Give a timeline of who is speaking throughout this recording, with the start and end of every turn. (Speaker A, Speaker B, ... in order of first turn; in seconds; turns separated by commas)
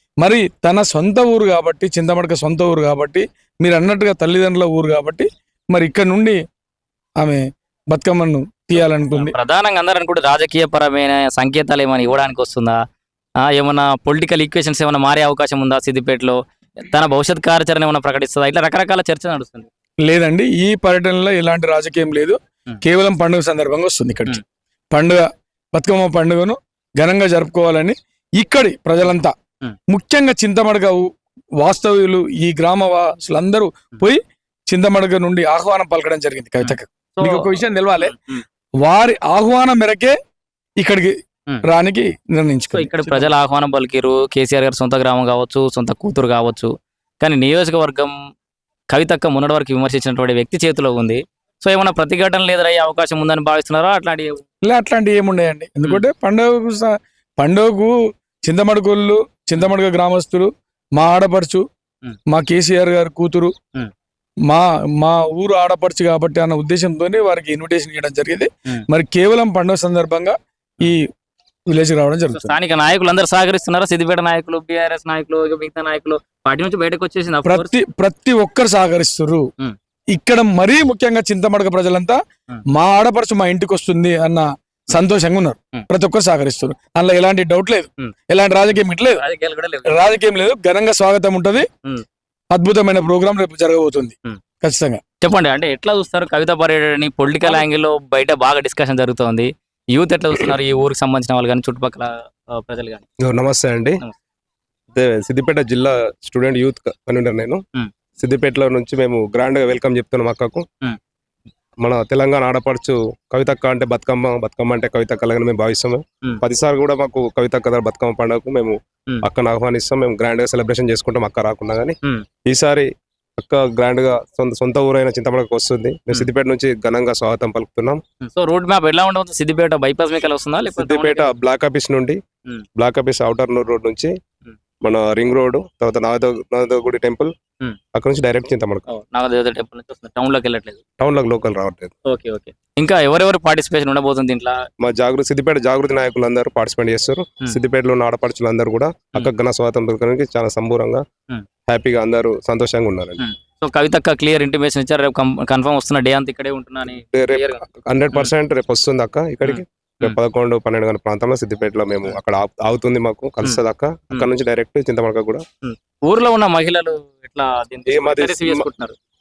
Speaker A: 0.2-6.4, Speaker A: 7.2-9.3, Speaker B: 9.1-12.8, Speaker B: 13.5-19.7, Speaker A: 20.0-24.4, Speaker A: 24.9-29.3, Speaker A: 29.9-38.1, Speaker B: 36.6-38.4, Speaker A: 38.8-40.1, Speaker A: 40.8-41.1, Speaker A: 41.6-43.3, Speaker B: 42.7-48.1, Speaker B: 48.9-54.4, Speaker A: 54.6-61.6, Speaker A: 62.3-63.5, Speaker A: 64.5-71.1, Speaker A: 71.7-72.5, Speaker B: 72.3-77.7, Speaker A: 77.5-79.5, Speaker A: 80.1-82.2, Speaker A: 82.7-89.2, Speaker B: 89.1-89.9, Speaker A: 89.8-91.7, Speaker A: 92.5-95.0, Speaker B: 95.2-103.1, Speaker C: 103.2-104.0, Speaker C: 104.9-107.6, Speaker C: 108.2-110.7, Speaker C: 111.8-128.0, Speaker B: 128.2-131.3, Speaker C: 130.7-132.2, Speaker C: 132.7-134.1, Speaker C: 134.8-137.3, Speaker C: 137.9-138.8, Speaker B: 138.9-140.8, Speaker C: 141.0-141.9, Speaker B: 142.1-144.6, Speaker C: 144.8-151.0, Speaker C: 151.7-153.2, Speaker B: 153.2-157.6, Speaker C: 157.1-165.4, Speaker B: 159.4-160.2, Speaker B: 163.4-164.3, Speaker B: 165.6-168.9, Speaker C: 167.9-168.6